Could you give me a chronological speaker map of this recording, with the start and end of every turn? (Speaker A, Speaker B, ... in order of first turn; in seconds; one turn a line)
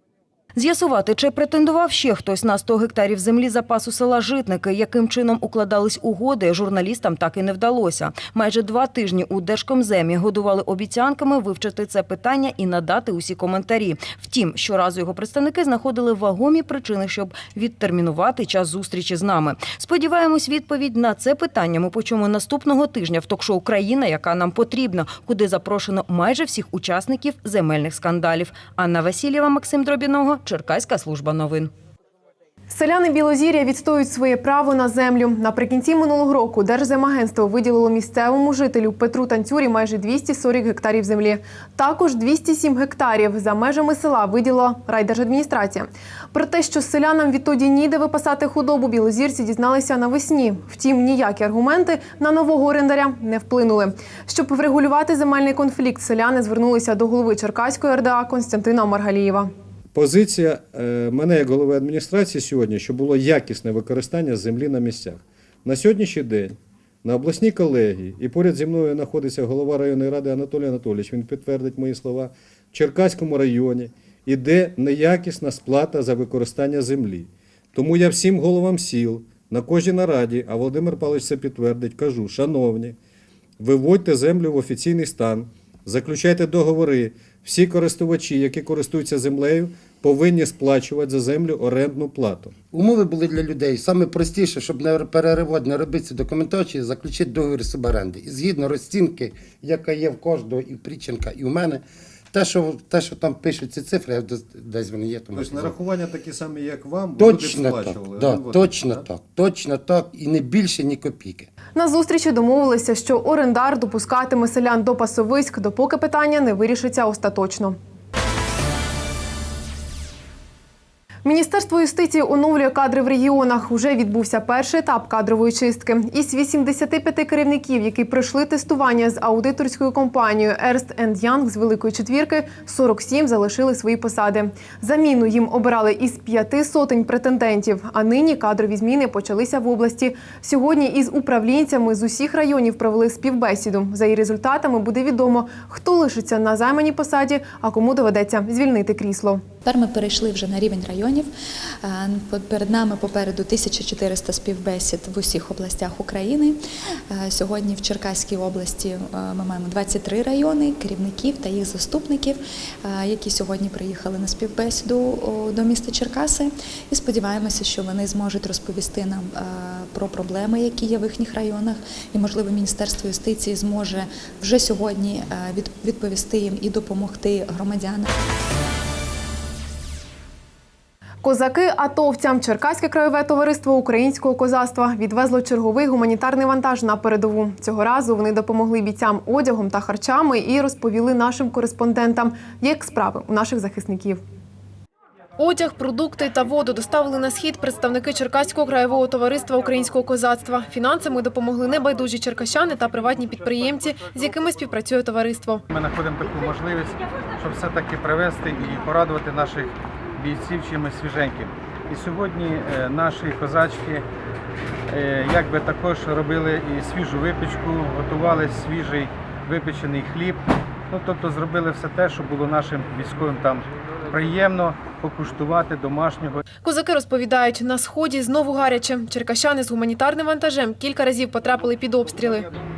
Speaker A: 0.6-31.7
Speaker B: 32.7-59.5
Speaker C: 60.0-83.0
Speaker C: 83.6-92.6
Speaker D: 92.7-105.8
Speaker C: 105.3-109.1
Speaker D: 107.2-111.5
Speaker B: 111.8-117.8
Speaker B: 121.2-149.4
Speaker E: 149.6-151.3
Speaker E: 151.8-156.6
Speaker E: 157.1-178.1
Speaker B: 181.2-194.2
Speaker B: 195.4-205.6
Speaker F: 205.7-214.1
Speaker F: 214.9-226.4
Speaker B: 226.6-232.5